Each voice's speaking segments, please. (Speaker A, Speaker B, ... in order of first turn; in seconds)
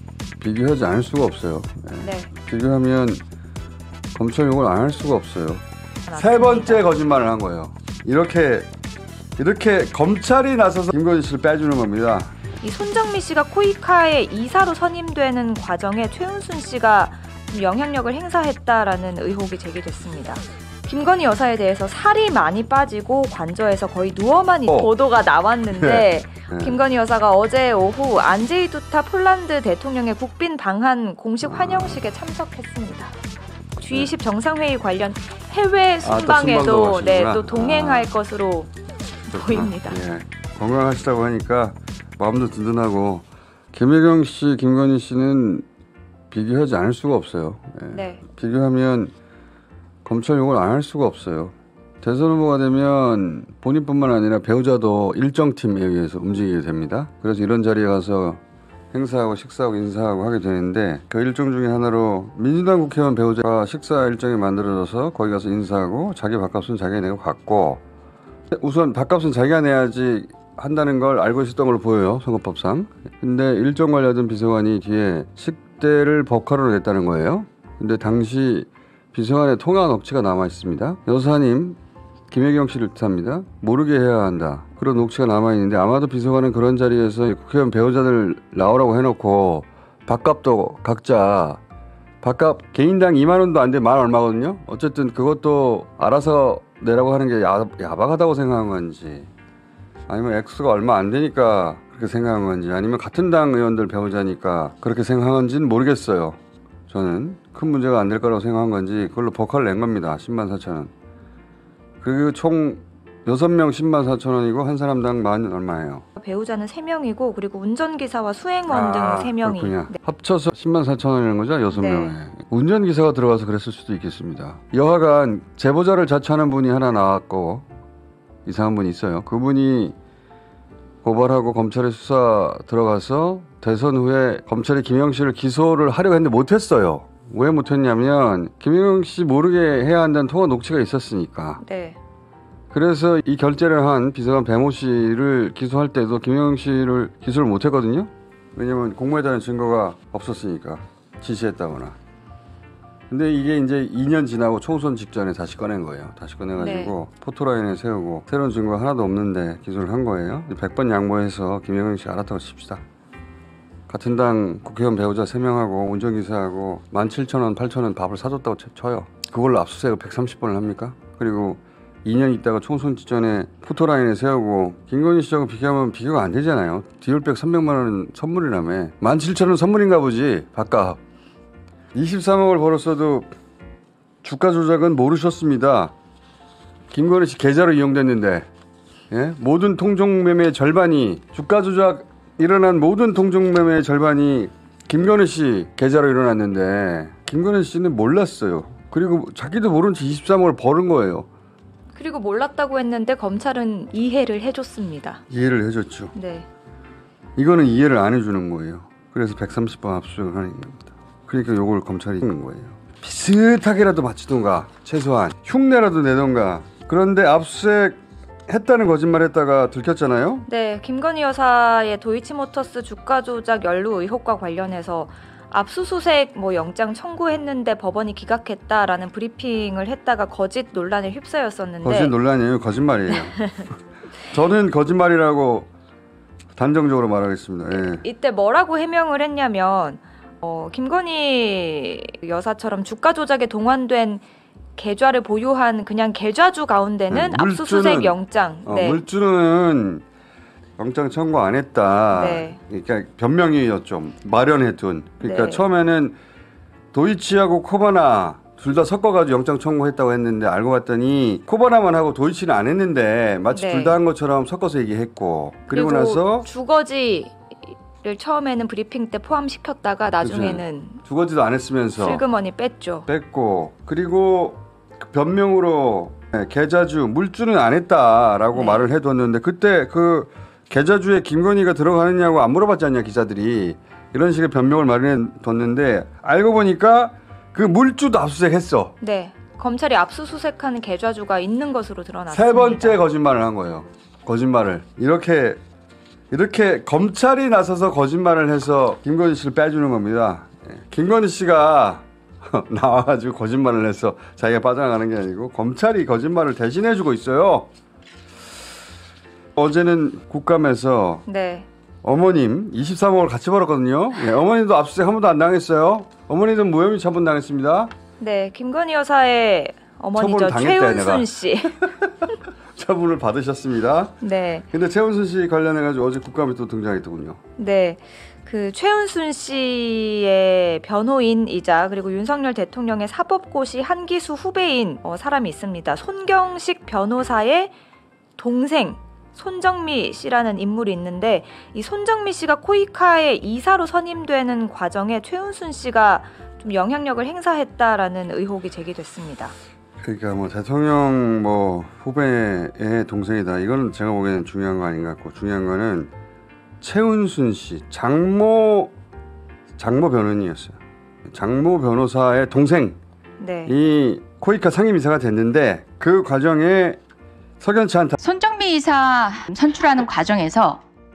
Speaker A: 0.4-3.2, 4.1-5.6, 6.2-8.7, 9.4-12.3, 25.7-26.8, 31.4-32.0, 36.0-38.1, 39.3-45.6, 46.3-49.1, 50.0-58.4, 58.9-67.8, 68.5-81.8, 82.3-91.6, 92.2-99.3, 100.1-106.4, 106.9-110.9, 112.0-116.0, 118.7-127.7, 128.4-129.9, 131.0-141.6, 142.7-151.9, 153.1-162.8, 163.9-181.0, 181.9-183.3, 184.2-185.9, 186.9-188.5, 189.1-201.3, 205.3-206.1, 207.3-220.4, 231.8-233.7, 234.3-235.7, 236.5-238.0, 247.1-250.0, 250.8-256.2, 256.9-266.5, 270.2-272.2, 273.1-288.9, 292.3-295.6, 296.3-307.7, 309.6-311.2, 312.0-317.9, 320.1-321.3, 321.8-327.4, 350.0-356.1, 356.8-358.9, 359.8-363.0, 363.6-367.0, 367.6-368.1
Speaker B: 2.0-2.3, 6.0-6.9, 12.6-33.1, 33.8-38.7, 39.2-40.0, 47.9-48.2, 116.2-119.9, 121.7-122.1, 141.6-142.0, 156.6-156.9, 201.9-205.2, 206.1-206.5, 220.4-232.1, 237.7-244.2, 244.8-249.0, 252.1-252.6, 255.2-255.7, 263.5-264.0, 265.7-271.0, 272.0-273.1, 278.5-278.9, 289.0-293.0, 311.2-311.7, 318.2-321.8, 324.2-324.6, 327.6-337.7, 338.4-349.5, 363.4-363.7
Speaker C: 368.2-370.8